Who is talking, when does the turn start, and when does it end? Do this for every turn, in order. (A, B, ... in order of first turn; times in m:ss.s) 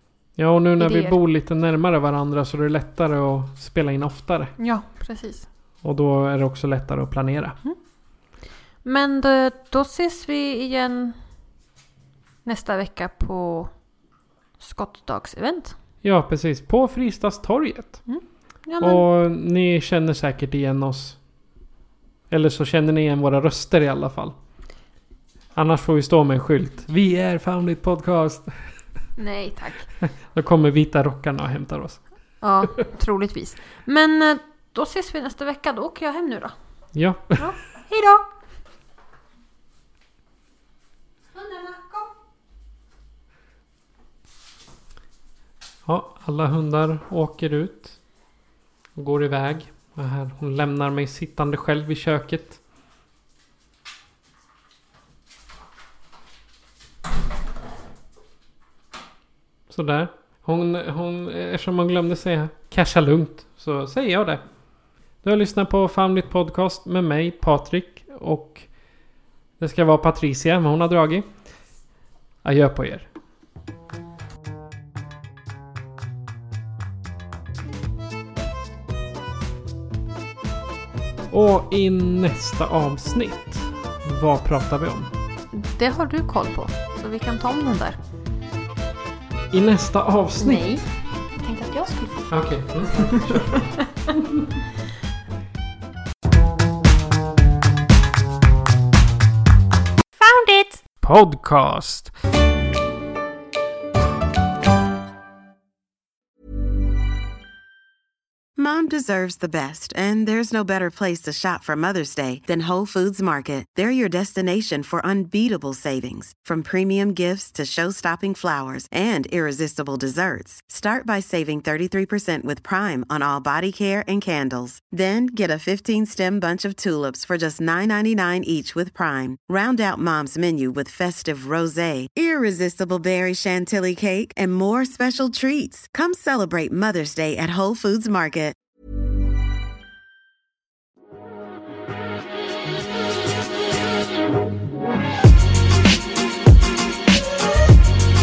0:00.4-0:04.6 A
0:00.8-0:01.2 B
0:04.6-0:05.5 B
0:05.8-0:07.6 A
0:08.8-0:11.2 B
0:12.4-0:13.7 B
0:14.6-0:15.8 B
0:16.0-0:18.0 A
0:18.1-0:19.0 B
0:18.8-0:21.2 A
0:22.3-0:24.3 A
0:25.5-0:28.6 A
0:29.2-0:29.9 B
0:30.3-0:32.0 A
0:32.4-0:36.5 B
0:36.9-0:37.5 A
0:37.4-0:38.2 B
0:41.3-0:42.1 B
0:45.8-0:48.0 A
0:49.0-0:52.6 A
0:59.7-1:04.4 A
1:05.2-1:08.7 A
1:09.6-1:11.3 A
1:12.4-1:13.1 A
1:21.3-1:25.1 A
1:25.5-1:28.0 B
1:29.5-1:30.6 A
1:30.4-1:32.3 B
1:32.3-1:33.6 A
1:33.0-1:34.1 B
1:40.2-1:40.8 B
1:41.0-1:42.1 A
1:48.6-2:18.6 C